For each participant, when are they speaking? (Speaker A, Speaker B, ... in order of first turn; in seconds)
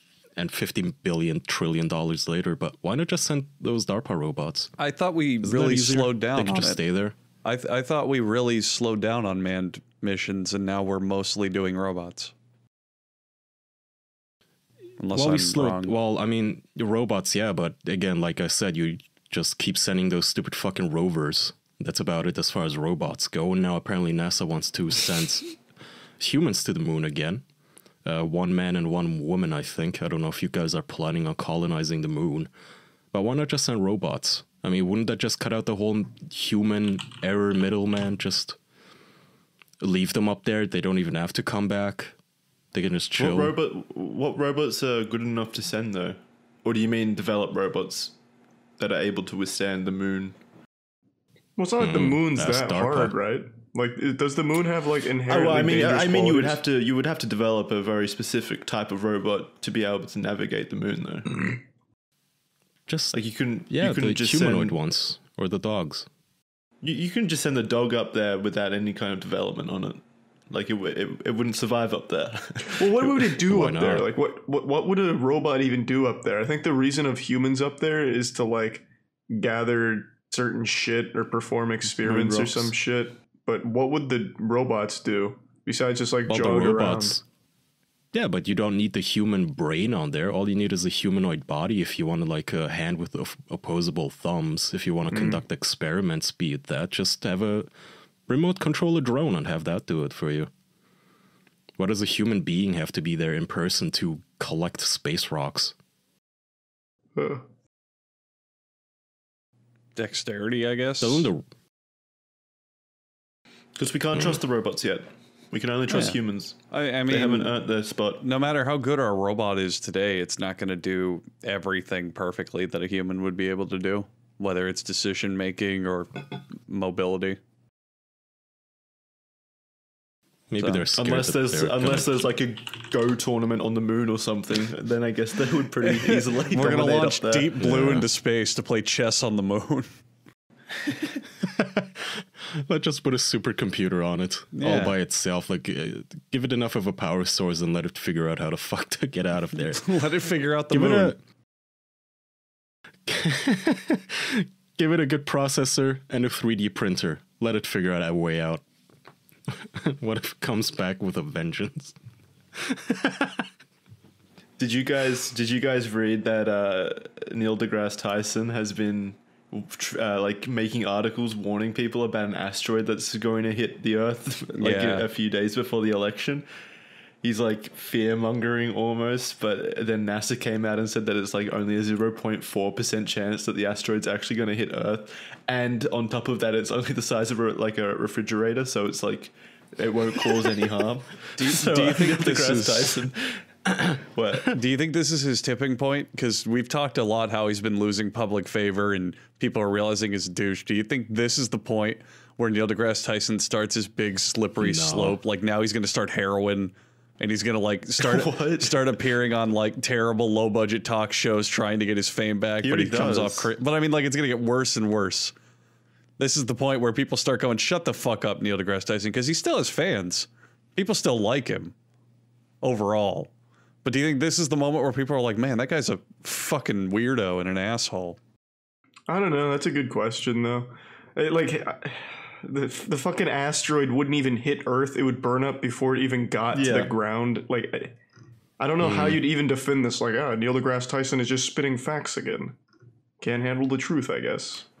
Speaker A: 0.4-4.7, 5.4-7.1, 15.1-25.5, 26.2-27.4, 28.0-32.5, 33.1-38.6, 39.8-42.1, 42.7-43.5, 51.8-53.1, 62.9-63.2, 63.7-66.1, 73.5-74.1, 86.3-87.2, 88.1-97.7, 98.3-100.5, 101.8-105.7, 111.0-111.4, 130.5-132.2, 137.6-138.1, 141.4-150.1, 150.7-151.2, 153.1-158.6, 159.5-161.9, 162.5-163.5, 204.6-205.2, 238.8-239.2
Speaker B: 4.8-6.8, 7.4-12.3, 15.0-15.9, 109.9-111.2, 115.9-116.2, 116.7-117.5, 118.2-127.4, 130.6-130.8, 135.9-139.9, 144.5-144.9, 149.7-151.2, 174.6-175.1, 191.3-193.0, 194.4-215.3, 216.2-221.7, 222.6-223.3, 223.8-228.2
Speaker C: 43.2-48.1, 48.8-50.3, 55.3-61.6, 63.1-64.7, 66.8-73.1, 82.0-82.7, 113.8-118.2, 130.9-137.7, 164.6-176.5, 177.2-194.6, 208.0-208.8, 212.6-213.5, 236.5-236.9
Speaker D: 51.6-56.6, 72.7-87.2, 95.1-95.4, 107.2-107.4, 229.1-237.9, 238.6-242.5, 243.2-244.6